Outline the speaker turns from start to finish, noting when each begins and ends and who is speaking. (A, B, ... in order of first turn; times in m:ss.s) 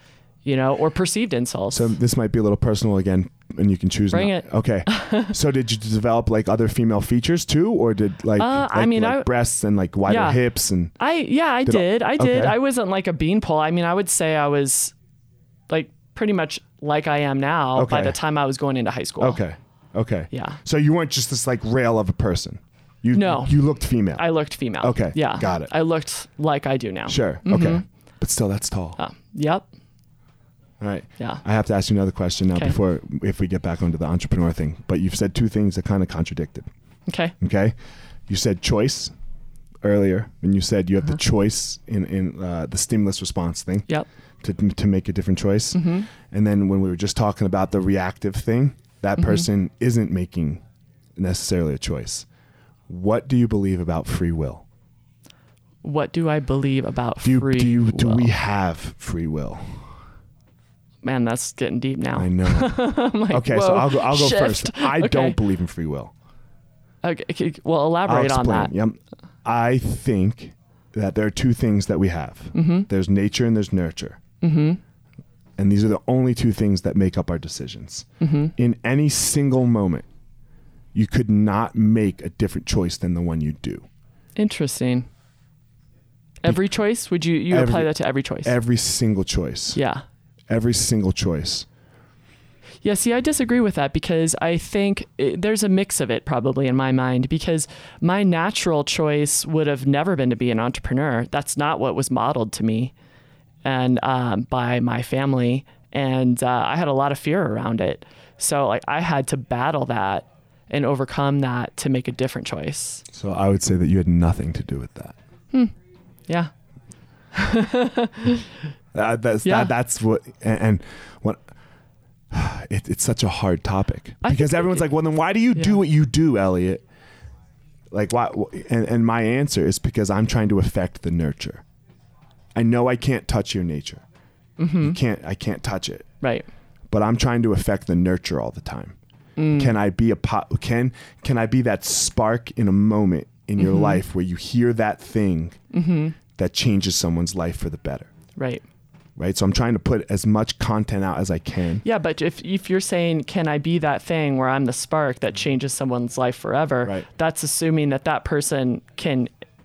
0:00.4-0:02.0 A
0:01.7-0:11.0 B
0:04.1-0:05.4 A
0:08.4-0:09.3 A
0:10.1-0:10.4 A
0:11.0-0:14.9 A
0:11.7-0:12.6 B
0:15.7-0:19.4 A
0:17.8-0:18.2 B
0:19.2-0:24.3 B
0:20.3-0:20.6 A
0:23.1-0:23.6 A
0:24.2-0:27.8 A
0:24.8-0:25.7 B
0:27.1-0:29.0 B
0:29.0-0:29.7 A
0:30.8-0:36.7 B
0:37.1-0:37.4 A
0:37.4-0:37.8 B
0:38.3-0:39.1 B
0:39.8-0:43.9 B
0:44.4-0:50.6 B
0:45.7-0:46.1 A
0:49.2-0:49.5 A
0:51.2-0:52.3 B
0:52.9-0:54.6 B
0:55.8-0:58.3 A
0:57.2-0:59.9 B
1:01.0-1:05.4 A
1:02.2-1:06.1 B
1:07.0-1:08.7 A
1:08.1-1:14.2 B
1:12.6-1:12.9 A
1:14.4-1:14.8 A
1:15.6-1:20.1 B
1:18.2-1:18.5 A
1:20.9-1:23.9 B
1:24.4-1:25.1 A
1:26.4-1:28.6 A
1:27.5-1:27.9 B
1:28.4-1:29.8 B
1:29.7-1:30.0 A
1:30.5-1:31.7 B
1:32.8-1:42.9 A
1:43.6-1:53.0 A
1:53.1-1:55.2 B
1:57.3-1:58.6 A
1:58.9-2:01.4 B
1:59.4-1:59.7 A
2:02.3-2:06.8 B
2:04.2-2:04.9 A
2:07.9-2:11.6 B
2:12.6-2:14.0 B
2:14.6-2:15.0 A
2:14.8-2:16.1 B
2:16.2-2:16.5 A
2:16.9-2:19.0 B
2:19.4-2:19.7 A
2:19.5-2:25.6 B
2:23.6-2:24.0 A
2:25.7-2:26.2 A
2:26.4-2:28.1 B
2:28.4-2:28.6 A
2:29.2-2:31.8 B
2:31.8-2:39.3 A